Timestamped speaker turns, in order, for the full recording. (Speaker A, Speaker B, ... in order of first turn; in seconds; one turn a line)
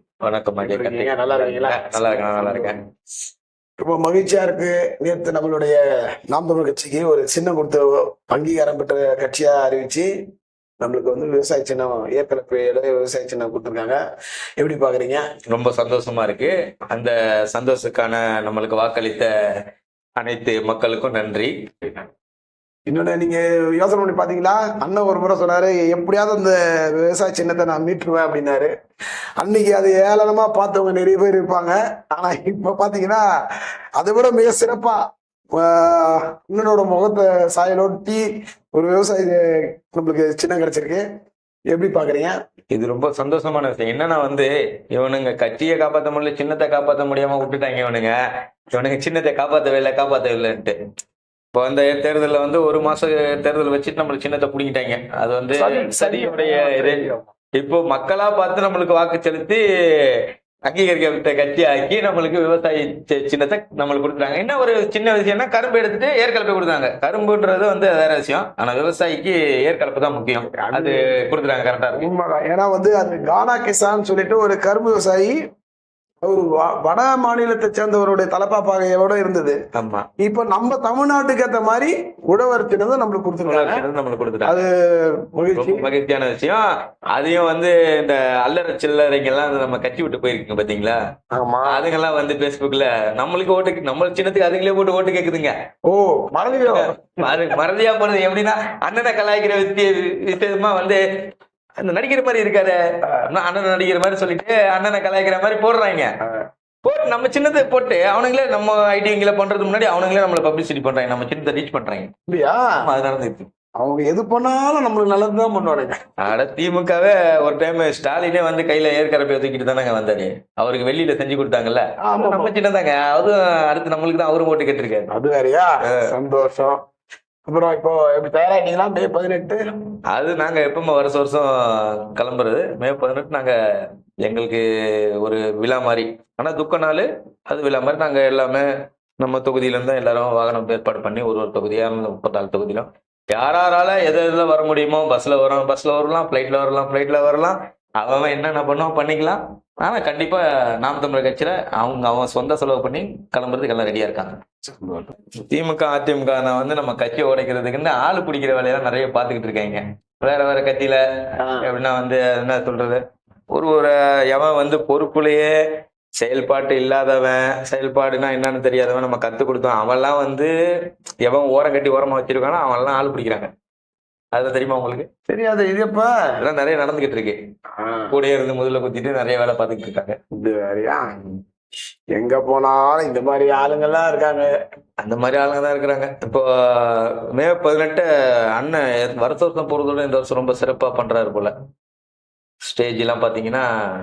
Speaker A: 0.2-2.8
Speaker B: 0.6-2.7
Speaker B: 3.8-10.1
Speaker B: 10.8-14.0
Speaker B: 14.6-15.2
Speaker A: 15.5-19.3
Speaker A: 20.2-21.6
Speaker B: 22.9-28.7
Speaker B: 29.4-33.2
Speaker B: 34.0-35.0
Speaker B: 35.5-39.4
Speaker B: 39.9-41.0
Speaker B: 41.7-42.4
Speaker A: 42.7-48.1
Speaker A: 48.7-50.7
Speaker A: 51.5-57.0
Speaker B: 55.5-57.3
Speaker A: 57.5-72.1
Speaker B: 70.6-70.9
Speaker B: 72.0-75.4
Speaker B: 76.2-79.6
Speaker A: 79.7-80.1
Speaker B: 80.2-83.8
Speaker A: 83.4-84.6
Speaker B: 84.4-85.9
Speaker A: 85.5-91.0
Speaker B: 91.3-91.8
Speaker A: 91.7-95.5
Speaker B: 95.8-97.4
Speaker A: 96.7-101.0
Speaker A: 101.8-106.1
Speaker A: 106.8-112.1
Speaker B: 112.3-112.7
Speaker A: 112.8-113.5
Speaker B: 113.8-115.9
Speaker A: 116.2-125.1
Speaker B: 122.0-122.5
Speaker B: 125.1-126.8
Speaker A: 125.8-126.1
Speaker B: 127.5-129.6
Speaker A: 130.1-138.7
Speaker A: 139.2-154.4
Speaker B: 154.7-155.1
Speaker A: 155.5-161.0
Speaker B: 161.4-161.6
Speaker A: 161.6-163.0
Speaker A: 163.5-165.5
Speaker A: 166.2-170.5
Speaker A: 171.2-173.5
Speaker A: 174.3-175.1
Speaker B: 175.3-176.1
Speaker A: 176.4-177.4
Speaker B: 177.8-178.2
Speaker A: 178.1-180.2
Speaker B: 180.3-181.1
Speaker B: 182.1-184.5
Speaker A: 185.0-191.5
Speaker A: 192.6-193.7